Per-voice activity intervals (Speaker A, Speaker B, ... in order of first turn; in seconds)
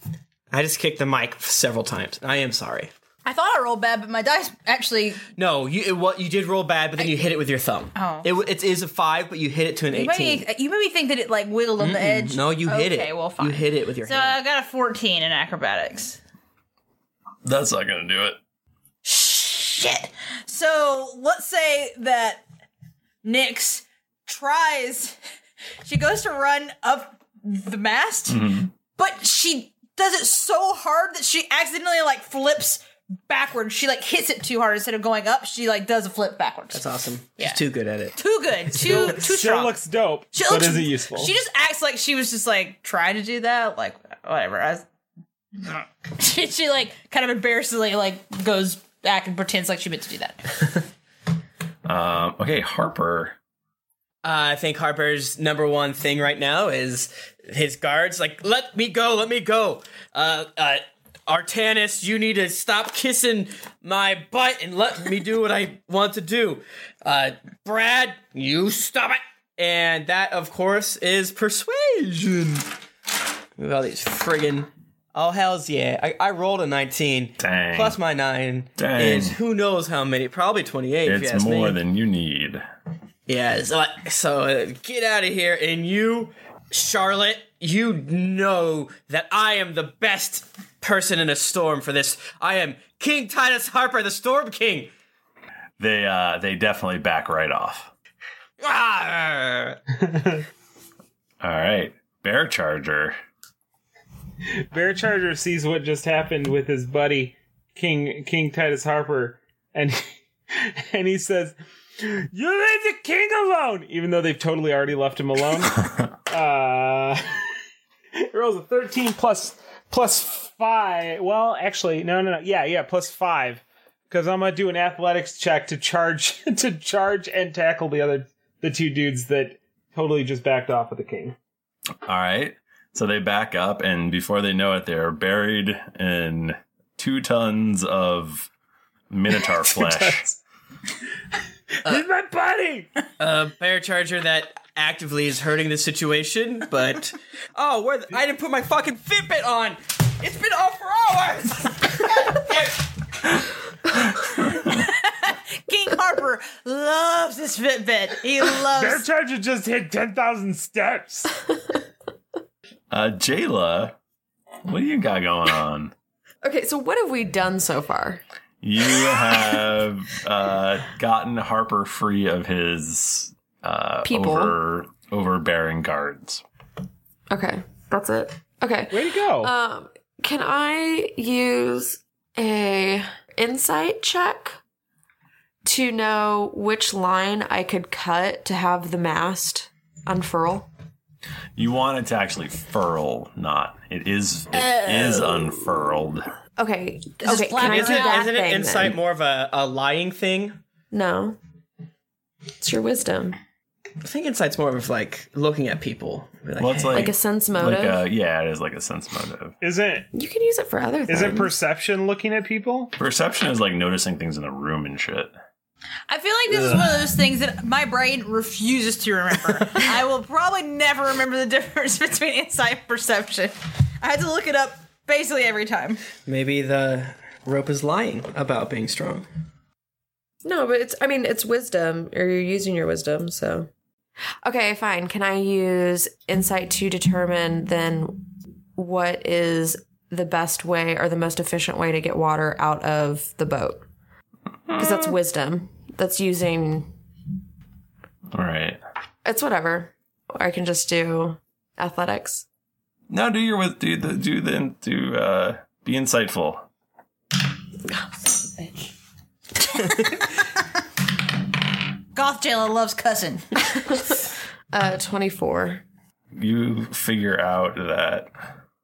Speaker A: 0.5-2.9, 5.4-10.5, 11.8-14.4, 36.7-38.2, 54.2-72.7, 73.6-81.8, 83.3-94.9, 98.6-99.8, 143.2-152.9, 197.6-200.6, 204.0-207.1, 226.3-229.3
Speaker B: 3.2-5.2, 7.0-7.3, 8.0-8.3, 9.9-16.2, 19.1-22.4, 23.2-25.2, 25.9-36.8, 38.2-39.8, 40.3-44.8, 45.6-50.7, 154.7-159.1, 194.7-195.4, 197.2-198.3, 216.1-226.0, 262.1-263.5
Speaker C: 17.4-18.4, 28.3-28.7, 51.9-53.4, 77.4-78.0, 78.8-79.4, 81.0-82.6, 95.8-97.9, 101.4-103.2, 132.1-138.5, 139.1-140.3, 154.2-154.7, 162.9-163.9, 164.7-165.9, 168.6-176.4, 191.6-196.2, 206.6-209.6, 213.0-215.3, 244.7-245.1, 248.3-248.8, 253.1-256.6, 266.4-268.3
Speaker D: 38.8-41.3, 100.0-100.4, 104.7-117.2, 118.3-131.4, 139.7-140.4, 141.8-142.9, 158.7-161.3, 178.9-179.5, 209.6-210.1, 211.1-212.9, 216.5-216.8
Speaker E: 166.4-168.2, 174.1-174.6, 177.3-184.6, 185.7-190.7, 196.6-199.0, 200.9-201.4, 202.6-203.4, 206.9-208.0, 210.1-211.5, 230.4-233.7, 234.4-243.9, 244.8-246.9, 249.2-252.4, 264.7-265.8